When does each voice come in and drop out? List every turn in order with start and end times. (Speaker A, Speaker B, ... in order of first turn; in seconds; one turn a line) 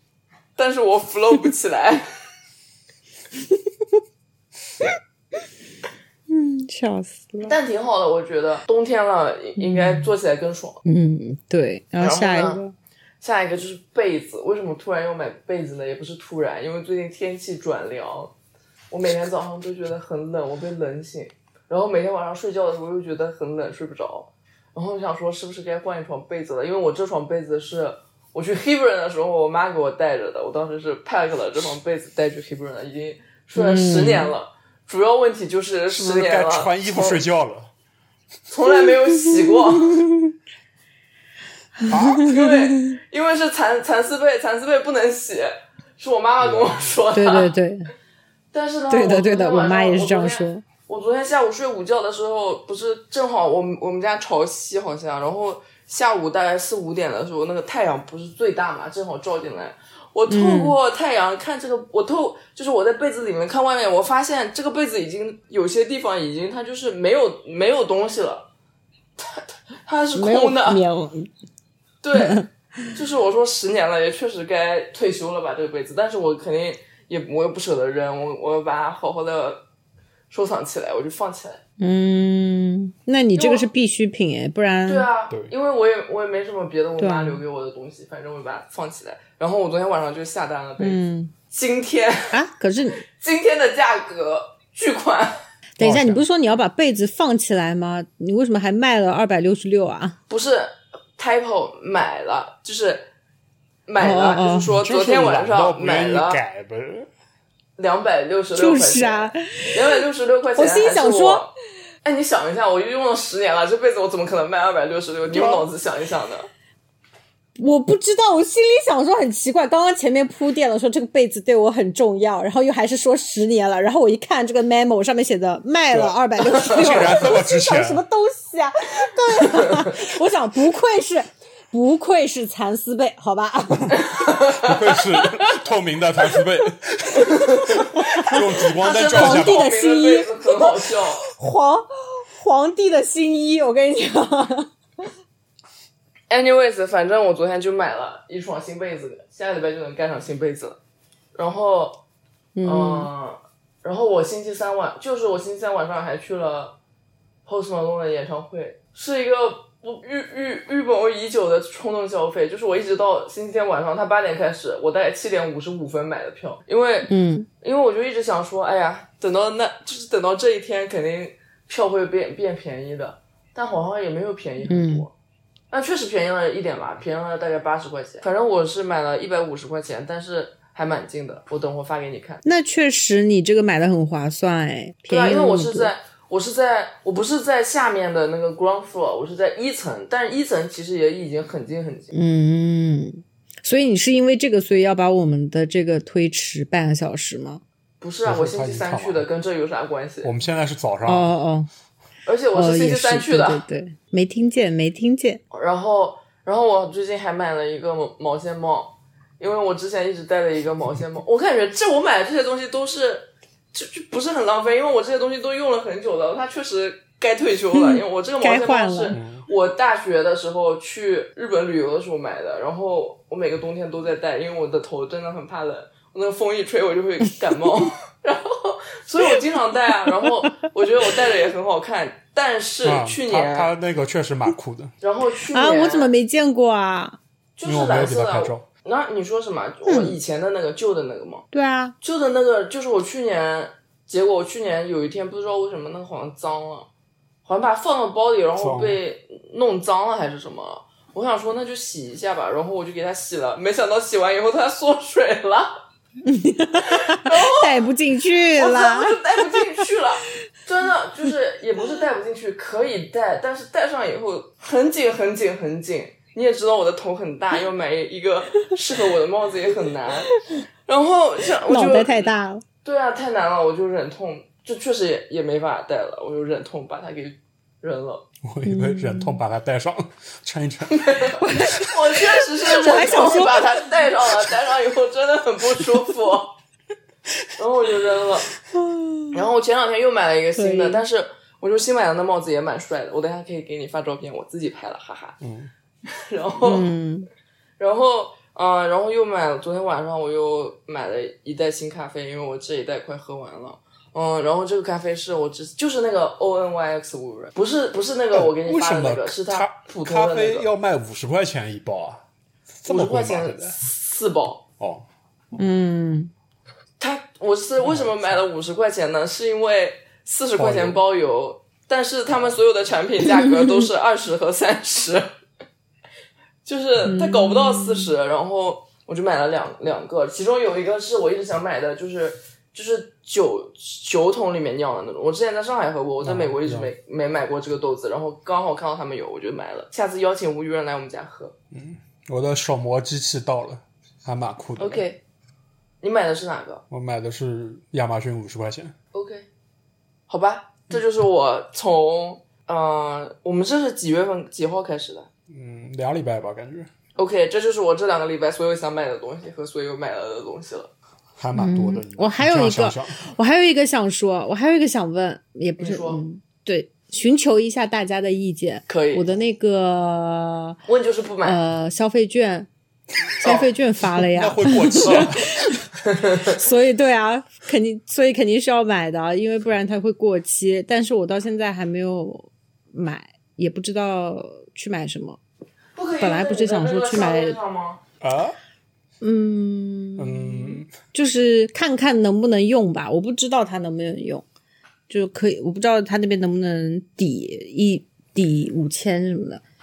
Speaker A: 0.6-2.1
Speaker B: 6.3-7.5
Speaker A: 7.4-10.8
Speaker B: 9.6-10.1
Speaker B: 10.8-12.7
Speaker A: 12.0-12.6
Speaker A: 13.2-18.3
Speaker A: 18.9-37.2
Speaker B: 33.5-34.3
Speaker C: 35.9-37.7
Speaker A: 38.5-40.0
Speaker B: 39.3-40.3
Speaker C: 41.9-42.3
Speaker B: 41.9-43.0
Speaker A: 42.1-47.5
Speaker C: 46.4-47.0
Speaker B: 47.1-47.9
Speaker A: 48.5-68.5
Speaker B: 48.9-50.6
Speaker B: 60.3-60.8
Speaker A: 69.2-70.8
Speaker B: 70.2-71.3
Speaker A: 72.0-79.7
Speaker B: 72.2-72.5
Speaker A: 80.3-81.6
Speaker B: 81.8-85.1
Speaker A: 83.3-83.7
Speaker A: 84.9-91.0
Speaker B: 87.0-87.4
Speaker B: 90.8-91.3
Speaker A: 91.5-92.3
Speaker B: 92.3-93.0
Speaker A: 93.2-95.4
Speaker B: 95.8-100.2
Speaker C: 95.8-96.2
Speaker A: 100.3-103.1
Speaker A: 103.9-106.4
Speaker B: 104.0-104.7
Speaker C: 104.7-107.1
Speaker A: 107.8-111.5
Speaker B: 108.5-110.0
Speaker B: 110.6-111.5
Speaker A: 112.0-116.5
Speaker B: 115.3-115.7
Speaker B: 117.6-134.0
Speaker C: 125.9-128.1
Speaker A: 129.5-130.0
Speaker A: 133.9-135.5
Speaker C: 134.5-139.7
Speaker A: 137.2-141.2
Speaker B: 138.3-144.7
Speaker A: 146.3-150.8
Speaker A: 151.3-152.0
Speaker B: 152.6-153.1
Speaker A: 152.6-156.8
Speaker A: 157.5-167.1
Speaker B: 167.1-167.5
Speaker A: 167.6-175.1
Speaker B: 174.7-175.1
Speaker A: 175.7-182.4
Speaker B: 182.4-185.9
Speaker A: 185.1-192.2
Speaker B: 192.1-197.6
Speaker A: 198.0-200.3
Speaker C: 198.2-199.3
Speaker C: 200.2-201.3
Speaker B: 201.1-201.7
Speaker A: 202.3-203.6
Speaker B: 202.5-205.4
Speaker A: 205.5-233.7
Speaker B: 217.7-219.2
Speaker C: 219.1-219.4
Speaker C: 232.8-234.9
Speaker A: 235.0-236.1
Speaker B: 235.5-237.2
Speaker A: 237.6-241.4
Speaker C: 237.6-238.7
Speaker B: 239.9-240.2
Speaker B: 241.5-241.9
Speaker A: 242.0-246.9
Speaker A: 247.4-255.8
Speaker C: 248.6-249.0
Speaker B: 256.2-259.4
Speaker A: 256.8-257.8
Speaker A: 258.6-270.3
Speaker A: 270.9-272.3
Speaker B: 271.7-272.6
Speaker A: 272.8-278.2
Speaker C: 278.4-281.1
Speaker B: 278.7-279.4
Speaker A: 280.9-286.6
Speaker B: 281.4-283.9
Speaker A: 287.6-288.5
Speaker B: 288.7-289.4
Speaker A: 289.3-295.4
Speaker B: 290.6-291.0
Speaker C: 295.4-295.7
Speaker A: 296.1-296.9
Speaker B: 296.6-297.3
Speaker A: 297.8-310.7
Speaker C: 308.3-312.2
Speaker C: 312.8-313.8
Speaker A: 312.9-314.6
Speaker C: 314.8-315.6
Speaker B: 315.6-316.3
Speaker A: 317.0-325.3
Speaker C: 317.8-318.4
Speaker C: 320.6-321.0
Speaker A: 326.6-341.6
Speaker B: 327.1-328.1
Speaker C: 336.2-336.9
Speaker C: 341.7-345.1
Speaker A: 344.8-345.2
Speaker A: 346.0-346.8
Speaker C: 346.9-348.9
Speaker A: 349.1-349.5
Speaker A: 350.3-355.3
Speaker C: 355.5-356.9
Speaker A: 357.2-360.9
Speaker C: 361.4-363.2
Speaker B: 361.6-370.8
Speaker A: 365.8-366.2
Speaker A: 368.9-369.2
Speaker A: 370.9-371.6
Speaker B: 371.4-372.7
Speaker B: 373.4-375.9
Speaker A: 373.4-373.7
Speaker C: 374.2-375.7
Speaker A: 376.0-376.6
Speaker B: 376.4-385.4
Speaker A: 386.0-388.0
Speaker B: 386.2-387.6
Speaker C: 388.2-388.6
Speaker B: 389.2-394.4
Speaker C: 390.2-390.9
Speaker B: 395.1-399.6